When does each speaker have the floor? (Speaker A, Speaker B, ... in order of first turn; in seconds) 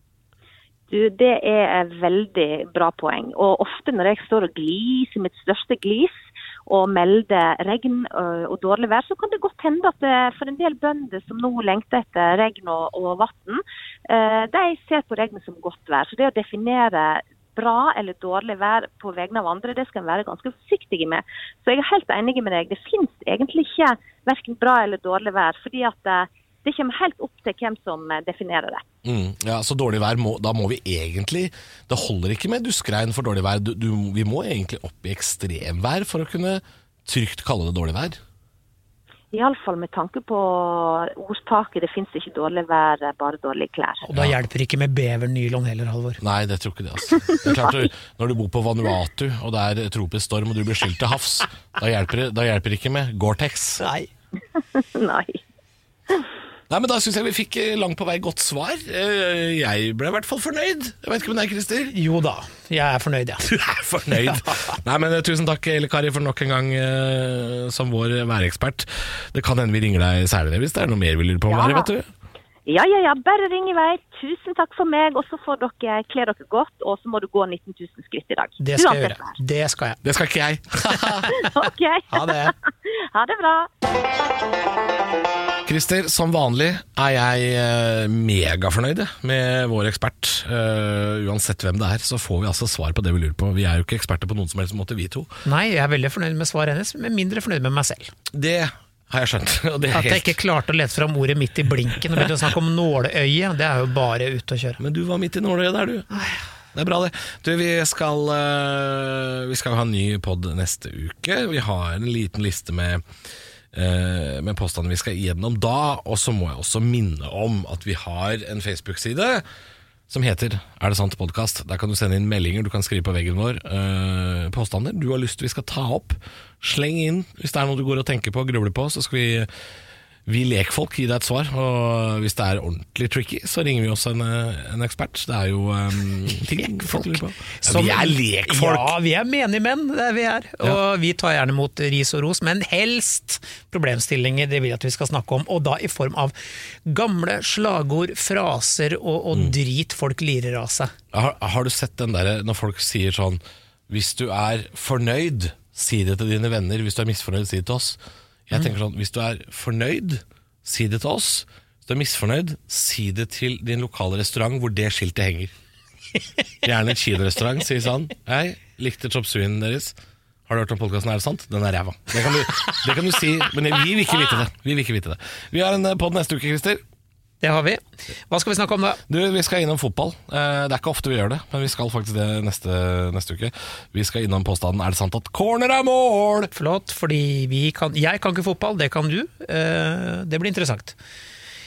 Speaker A: 0.9-28.8, 39.3-44.0, 54.7-55.4, 71.5-71.9, 72.7-79.3, 81.3-83.7
Speaker B: 29.0-38.2, 46.2-53.8, 56.7-61.9, 63.4-72.1, 80.0-81.5, 85.6-95.3, 98.3-100.4, 104.8-106.1, 106.7-113.0, 113.7-119.4, 120.1-129.5, 130.2-138.9, 151.1-165.5, 166.6-169.9, 170.5-176.8, 179.1-186.5
Speaker C: 44.0-46.2, 53.8-54.1, 61.9-63.5, 64.1-64.7, 78.6-80.0, 80.9-81.5, 82.1-82.5, 95.4-98.1, 99.9-104.8, 136.6-146.3, 146.8-150.9, 177.4-179.0, 186.5-190.9